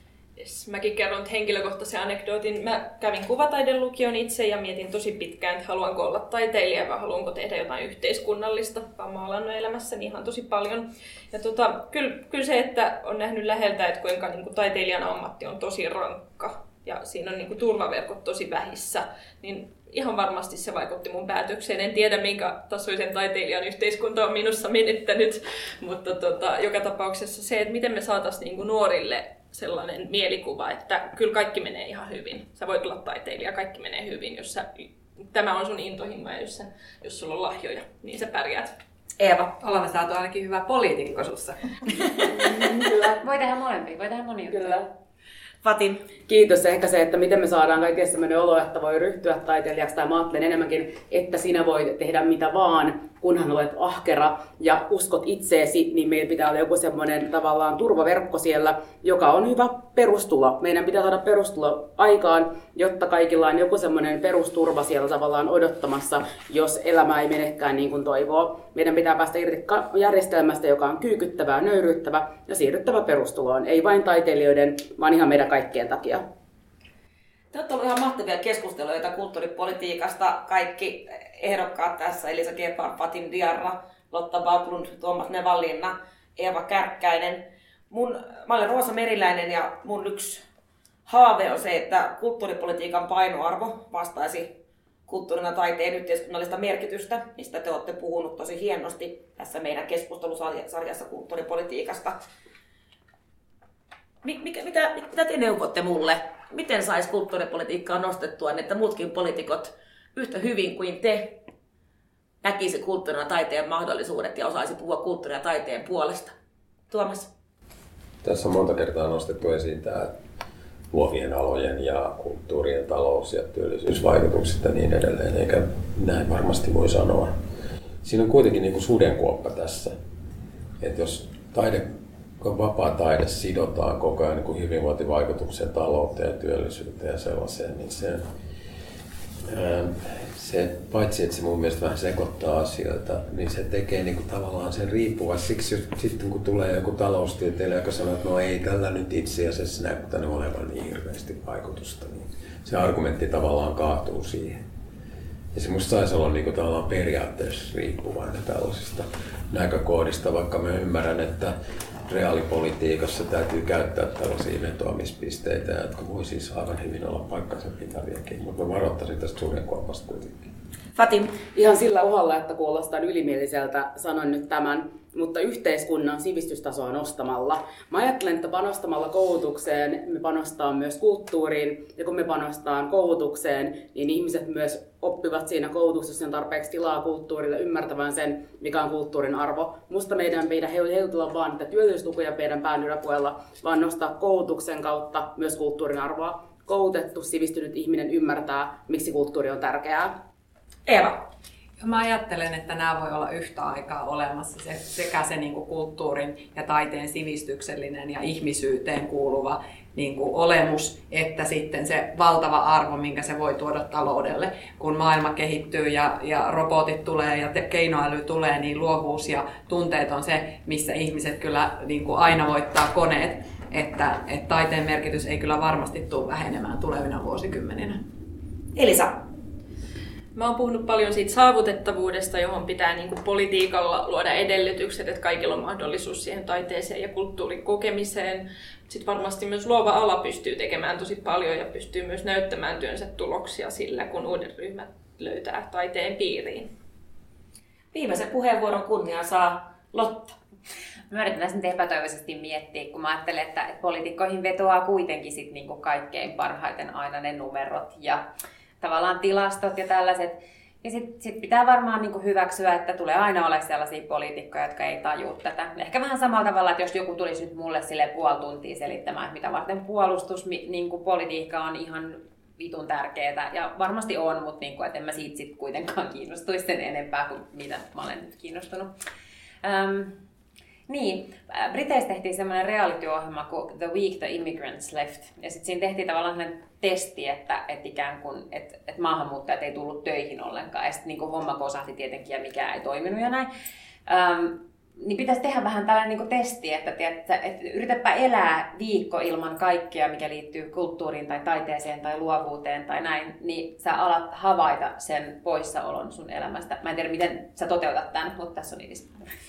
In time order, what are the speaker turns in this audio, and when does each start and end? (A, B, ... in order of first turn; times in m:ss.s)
0:00.4-0:38.7 A
0:39.2-0:39.5 B
0:39.6-0:41.7 C
0:42.5-0:43.1 D
0:43.2-0:44.9 E
0:45.6-0:46.0 B
0:46.3-1:16.2 D
1:17.5-1:30.4 B
1:31.1-1:34.5 B
1:35.1-1:42.2 B
1:44.2-1:51.4 B
1:52.4-1:56.3 B
1:56.9-1:57.3 B
1:58.2-2:00.1 F
2:00.9-2:07.3 F
2:08.0-2:09.9 F
2:10.8-2:11.8 F
2:12.4-2:18.2 F
2:19.5-2:34.6 F
2:35.5-2:41.5 F
2:42.1-2:50.5 F
2:51.0-2:51.3 B
2:51.5-3:20.1 D
3:20.8-3:21.2 B
3:21.8-3:48.0 C
3:48.8-3:49.2 B
3:50.3-4:06.7 A
4:07.9-4:10.3 B
4:11.1-4:18.2 E
4:18.8-4:38.9 E
4:39.6-4:40.2 E
4:40.9-4:53.5 E
4:54.1-5:09.2 E